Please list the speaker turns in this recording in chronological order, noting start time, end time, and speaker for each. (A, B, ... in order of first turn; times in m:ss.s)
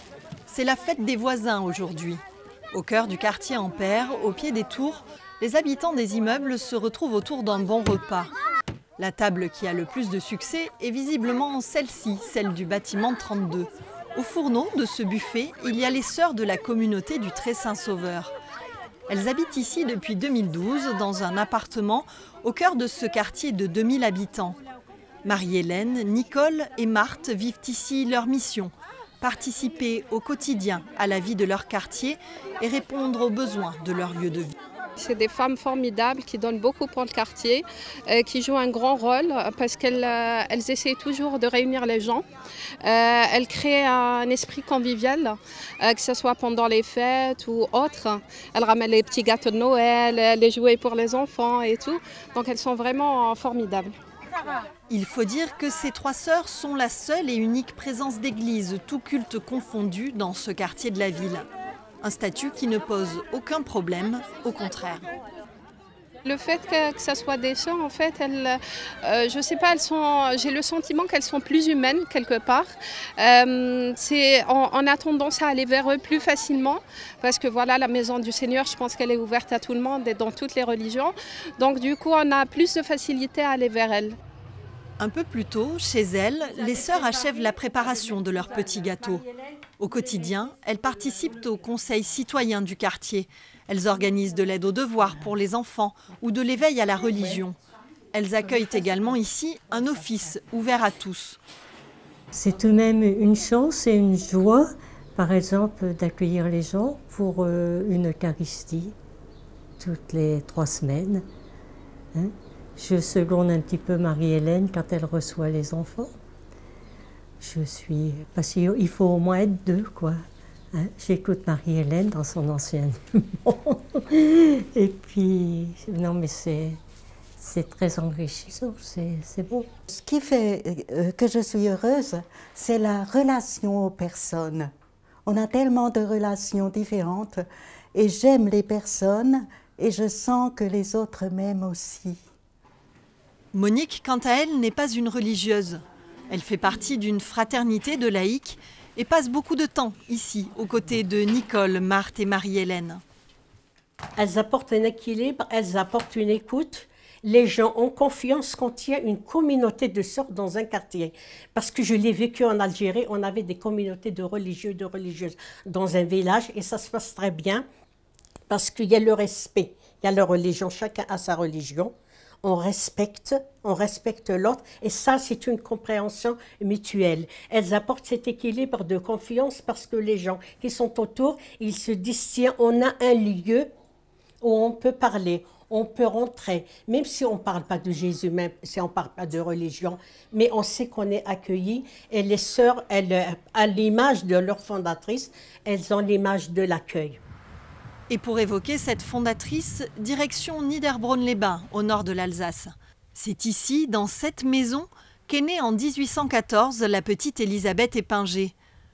0:00.5-0:08.3 A
0:09.0-0:18.3 A
0:19.1-0:24.6 A
0:25.2-0:34.5 A
0:35.0-0:42.3 B
0:42.8-0:53.9 B
0:54.9-1:01.5 A
1:02.0-1:05.0 A
1:06.2-1:24.2 B
1:25.0-1:29.2 A
1:29.8-1:37.6 A
1:38.1-1:41.4 A
1:42.4-1:48.9 C
1:49.8-1:51.2 C
1:52.2-1:56.1 C
1:57.4-2:00.2 C
2:00.8-2:06.8 C
2:07.4-2:09.6 C
2:09.9-2:14.7 D
2:15.3-2:17.4 D
2:17.9-2:22.2 D
2:23.5-2:33.0 A
2:34.2-2:47.6 E
2:48.5-2:51.9 E
2:52.4-3:03.7 E
3:04.4-3:17.2 E
3:18.1-3:28.5 A